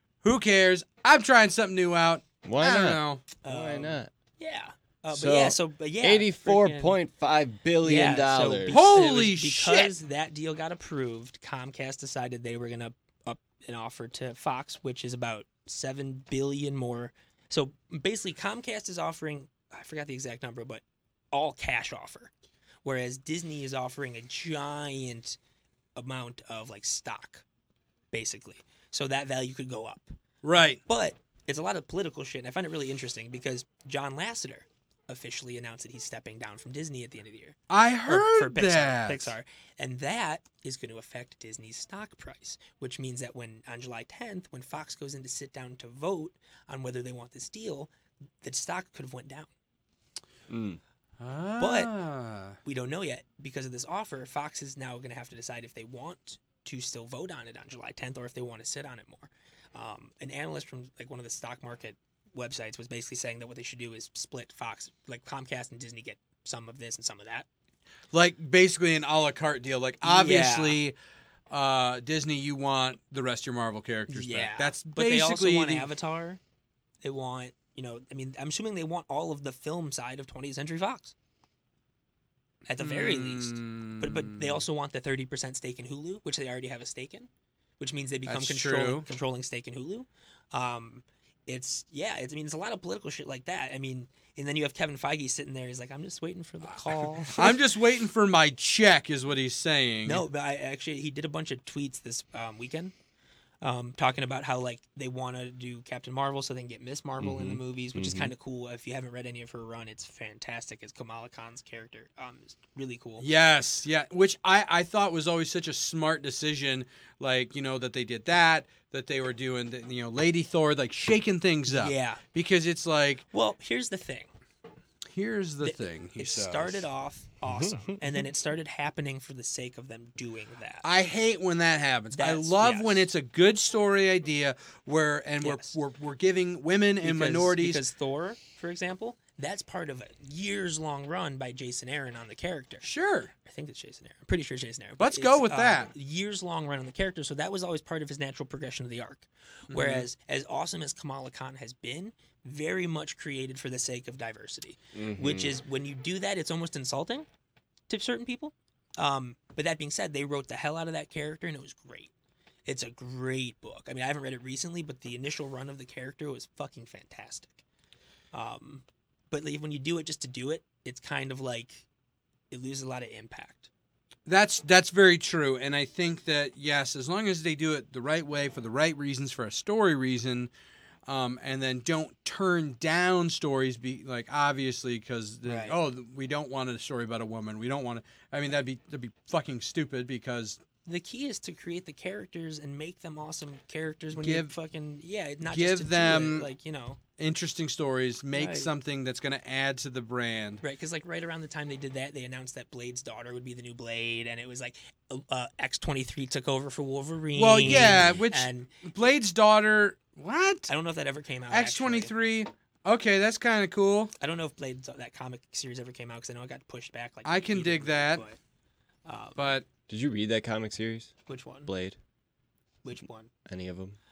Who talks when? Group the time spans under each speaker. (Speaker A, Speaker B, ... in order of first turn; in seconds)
Speaker A: 0.2-3.2, 8.7-9.9, 30.4-30.8, 37.7-39.4, 51.2-52.6, 68.1-70.9, 71.5-75.9, 82.8-84.6, 88.3-89.0, 96.8-100.2, 113.2-123.2, 125.1-126.8, 130.8-137.8, 142.8-143.3, 145.0-145.9, 149.7-150.1, 174.2-180.5, 181.1-190.6, 194.1-194.5, 195.4-196.5, 197.2-200.6, 207.4-210.7, 211.5-214.1, 217.2-218.2, 219.4-219.6
Speaker B: 2.4-4.1, 5.1-8.8, 50.5-50.8, 107.2-108.3, 127.5-128.0, 154.9-155.6, 207.7-208.2, 219.9-222.0, 223.4-224.0
Speaker C: 3.4-7.0, 7.8-22.3, 22.8-25.4, 25.9-27.4, 28.1-30.1, 30.9-47.9, 48.4-49.5, 51.6-51.9, 52.6-67.5, 70.0-70.8, 74.1-76.4, 77.0-81.1, 82.7-87.3, 87.8-97.6, 100.0-102.9, 103.6-113.3, 121.7-122.2, 123.3-124.3, 125.6-130.8, 132.1-133.1, 135.4-135.8, 137.0-142.9, 143.4-157.3, 157.9-162.1, 162.7-167.6, 168.3-171.8, 172.5-173.7, 185.4-185.8, 190.8-197.0, 198.3-198.7, 200.6-208.7, 210.7-212.1, 214.2-218.4, 219.1-219.6, 221.3-221.7, 222.8-223.3